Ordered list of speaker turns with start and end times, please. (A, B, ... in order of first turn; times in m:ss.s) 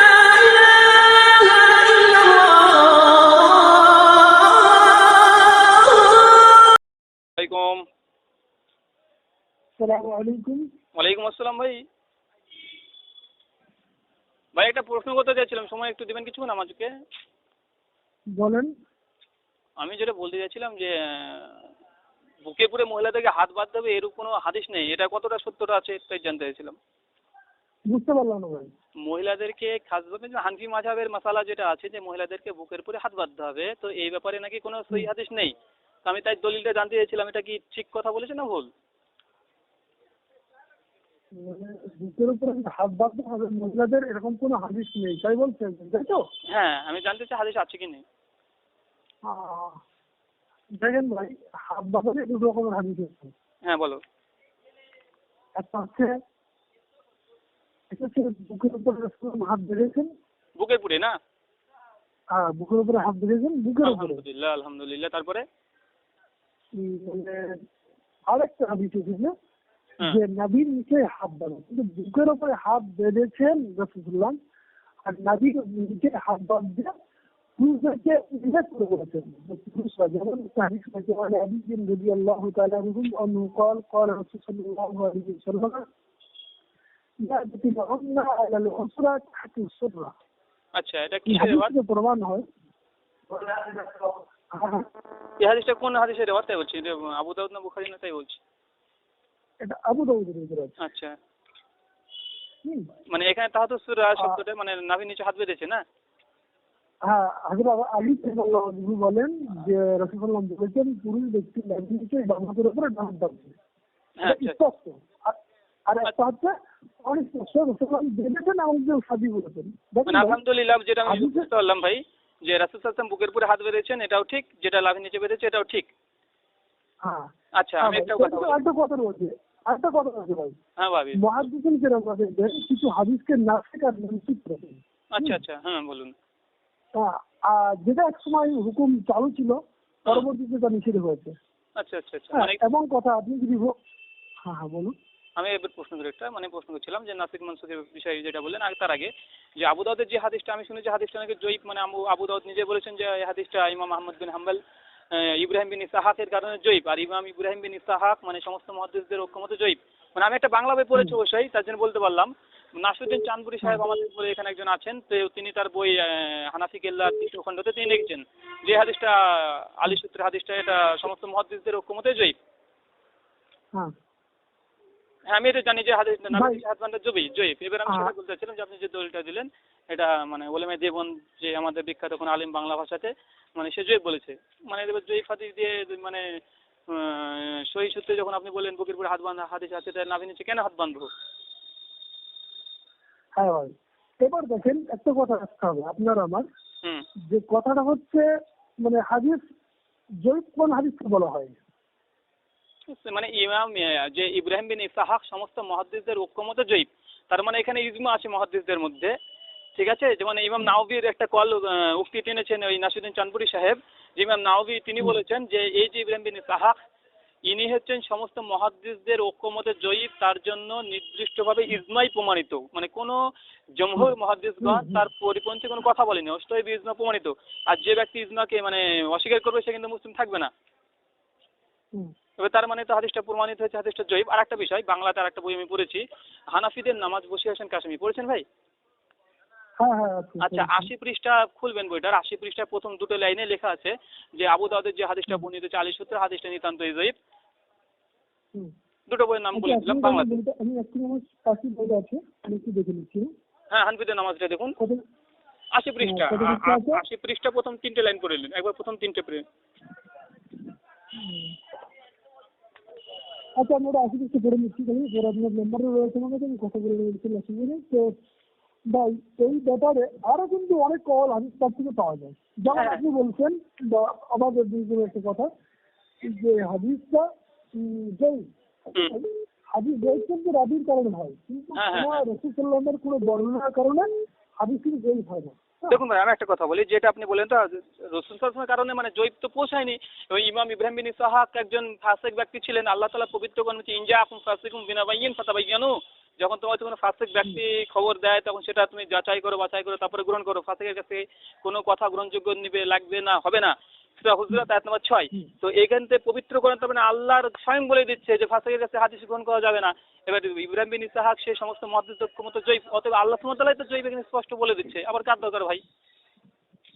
0:07.4-0:07.8 A
0:09.8-0:10.6 B
0:11.0-0:11.8 A
0:14.6-0:16.9 A
0:18.3-0:18.7 B
0:19.8-0:21.7 A
0:22.4-0:26.8 A
0:27.9-0:28.7 B
0:29.0-0:35.5 A
0:36.0-0:38.7 A
0:41.3-0:46.2 B
0:46.5-0:48.0 A
0:49.2-0:49.8 B
0:50.8-0:53.3 B
0:53.6-0:54.0 A
0:55.6-0:56.2 B
0:57.9-1:00.1 B
1:00.6-1:01.1 A
1:02.3-1:04.2 B
1:03.8-1:05.4 A
1:06.7-1:07.6 B
1:08.3-1:09.3 B
1:10.0-1:14.4 B
1:15.0-1:16.9 B
1:17.6-1:25.8 B
1:27.2-1:30.1 B
1:30.8-1:31.7 A
1:31.3-1:32.4 B
1:33.4-1:34.2 A
1:34.5-1:34.9 B
1:35.4-1:38.4 A
1:39.6-1:40.8 B
1:40.8-1:41.2 A
1:42.6-1:42.9 B
1:43.1-1:45.8 A
1:47.1-1:53.6 B
1:54.2-1:54.6 A
1:54.2-2:00.4 B
2:00.1-2:05.9 A
2:01.0-2:01.5 B
2:07.0-2:10.6 B
2:07.6-2:08.6 A
2:10.8-2:11.2 A
2:11.2-2:15.4 B
2:15.1-2:16.2 A
2:17.0-2:21.4 B
2:21.8-2:22.6 A
2:22.3-2:23.8 B
2:24.4-2:25.0 B
2:25.4-2:34.6 A
2:35.1-2:52.4 A
2:55.3-3:06.2 A
2:56.3-2:56.6 B
2:57.9-2:58.1 B
3:06.9-3:11.1 A
3:13.4-3:16.5 B
3:17.3-3:18.3 B
3:18.8-3:19.4 B
3:20.2-3:21.6 B
3:22.9-3:29.1 A
3:29.8-3:36.8 A
3:37.5-3:50.5 A
3:44.6-3:45.1 B
3:52.4-3:58.4 A
3:59.8-4:00.9 B
4:00.4-4:07.2 A
4:09.1-4:10.4 A
4:09.5-4:13.3 B
4:13.7-4:14.8 A
4:15.7-4:19.4 A
4:16.0-4:17.0 B
4:21.2-4:21.6 B
4:23.6-4:28.2 B
4:28.9-4:35.5 B
4:32.7-4:33.0 A
4:36.2-4:44.1 B
4:41.8-4:42.2 A
4:44.6-4:46.0 B
4:45.9-5:15.8 A